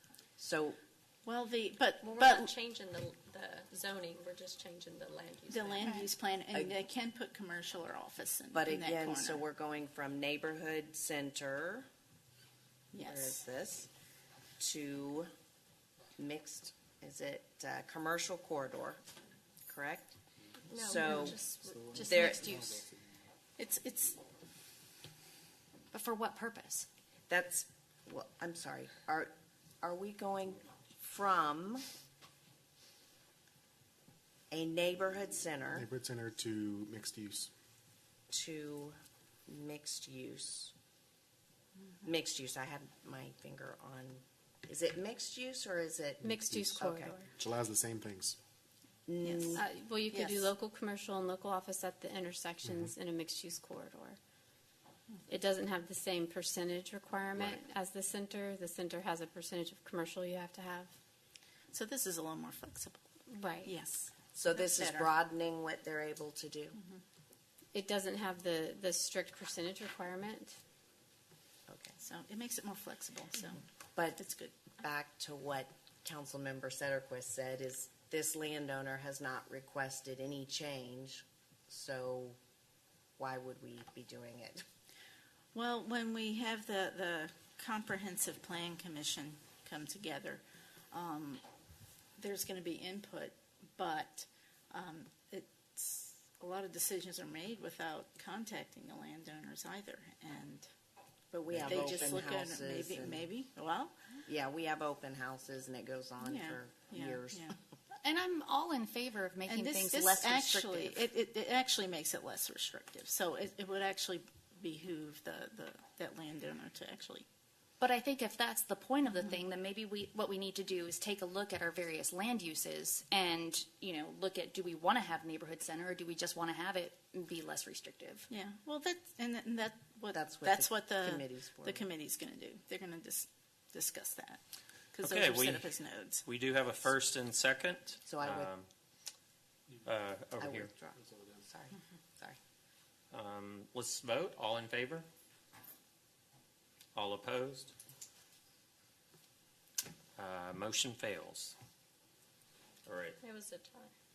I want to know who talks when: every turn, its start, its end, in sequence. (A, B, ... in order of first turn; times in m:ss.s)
0:00.4-0:00.8 A
0:01.2-0:02.5 B
0:02.0-0:06.0 C
0:05.5-0:09.4 B
0:08.5-0:11.8 A
0:12.9-0:13.4 B
0:13.0-0:13.9 A
0:14.6-0:15.3 A
0:16.2-0:19.0 A
0:19.7-0:20.1 A
0:20.7-0:21.4 A
0:20.8-0:22.8 B
0:21.9-0:22.7 A
0:23.6-0:24.2 B
0:25.9-0:26.9 D
0:27.3-0:31.8 A
0:34.5-0:35.9 A
0:35.7-0:37.5 E
0:38.3-0:40.7 A
0:42.0-0:47.1 A
0:46.2-0:47.3 F
0:46.3-0:46.8 E
0:47.3-0:48.4 E
0:49.1-0:49.6 A
0:49.2-0:50.5 B
0:49.5-0:54.2 F
0:55.3-1:00.9 F
1:01.7-1:03.0 B
1:03.3-1:03.7 F
1:03.6-1:05.1 B
1:04.3-1:06.8 A
1:07.7-1:10.6 F
1:11.7-1:12.0 A
1:12.0-1:13.6 B
1:14.0-1:14.2 A
1:14.2-1:14.6 B
1:14.8-1:22.4 A
1:23.2-1:24.6 A
1:25.5-1:31.4 B
1:32.2-1:40.7 B
1:41.3-1:43.3 A
1:41.6-1:44.1 B
1:44.2-1:47.5 A
1:46.2-1:47.5 B
1:48.0-1:51.1 D
1:49.4-1:57.2 B
1:57.8-2:08.3 D
2:08.3-2:14.4 B
2:10.1-2:11.8 A
2:14.9-2:16.2 B
2:15.0-2:15.7 G
2:16.2-2:18.7 G
2:18.0-2:18.5 A
2:19.9-2:20.7 G
2:20.4-2:22.4 A
2:21.0-2:21.4 E
2:23.1-2:25.1 G
2:26.9-2:27.7 G
2:30.2-2:31.6 G
2:32.8-2:33.2 G
2:33.2-2:33.9 C